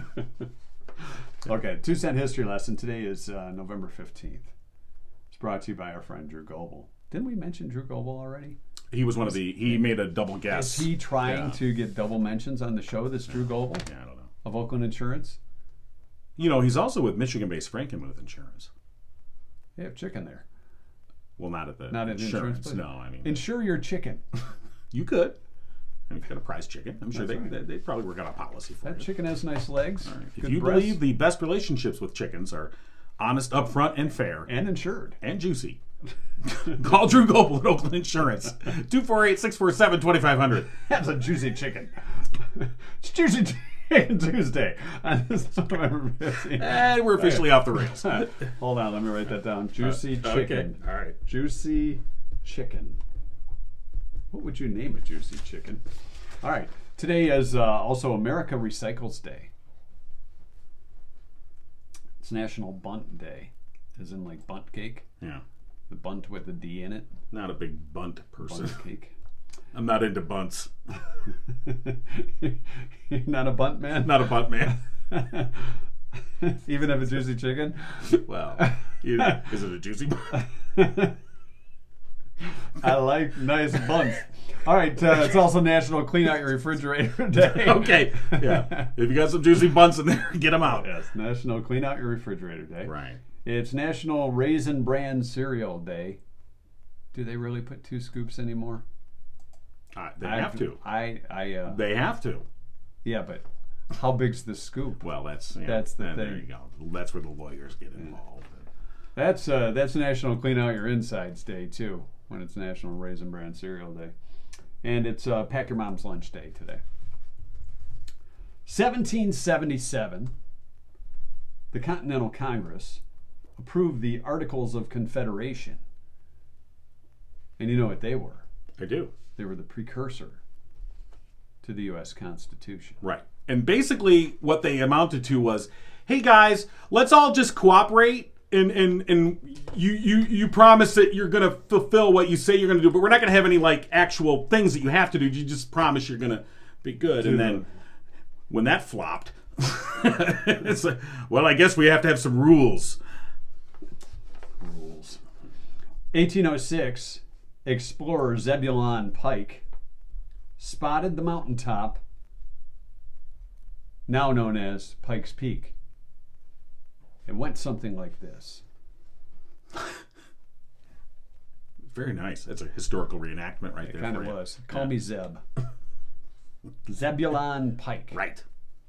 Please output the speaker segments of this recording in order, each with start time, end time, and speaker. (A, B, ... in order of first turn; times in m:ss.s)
0:01.4-0:04.5 A
0:05.3-0:08.6 A
0:08.9-0:11.6 B
0:10.4-0:13.9 A
0:13.3-0:14.3 B
0:14.4-0:15.4 A
0:16.4-0:18.7 B
0:19.8-0:20.4 A
0:21.4-0:23.4 B
0:21.9-0:24.2 A
0:24.9-0:25.4 B
0:26.1-0:29.1 B
0:27.1-0:27.6 A
0:28.8-0:31.0 A
0:30.0-0:34.5 B
0:34.4-0:35.2 A
0:35.2-0:35.8 B
0:36.4-0:40.8 B
0:40.8-0:53.0 A
0:46.4-0:48.5 B
0:49.8-0:51.2 B
0:54.3-0:55.8 A
0:56.4-0:59.5 A
1:02.2-1:05.1 A
1:05.9-1:07.2 A
1:07.3-1:08.8 B
1:08.4-1:09.1 A
1:09.7-1:10.7 B
1:11.6-1:12.6 A
1:13.1-1:15.7 A
1:14.0-1:14.8 B
1:16.4-1:19.5 A
1:18.0-1:20.4 B
1:20.7-1:21.1 A
1:22.8-1:28.9 A
1:27.4-1:30.9 B
1:30.6-1:36.2 A
1:32.8-1:33.2 B
1:37.1-1:38.8 A
1:39.9-1:40.8 B
1:40.2-1:41.8 A
1:41.7-1:42.4 B
1:43.0-1:46.4 A
1:45.0-1:48.7 B
1:49.2-1:54.1 A
1:54.8-1:56.8 A
1:58.6-2:00.3 A
2:01.7-2:03.0 A
2:03.6-2:05.8 A
2:07.6-2:08.4 A
2:08.8-2:09.1 B
2:09.4-2:10.4 A
2:11.6-2:13.0 A
2:13.0-2:27.7 B
2:27.2-2:27.7 A
2:28.5-2:33.0 B
2:34.6-2:35.2 A
2:36.1-2:39.6 A
2:40.6-2:42.0 A
2:44.1-2:45.7 A
2:47.2-2:48.6 A
2:51.8-2:54.9 B
2:53.8-2:55.4 A
2:56.8-2:58.2 A
2:58.1-2:58.4 B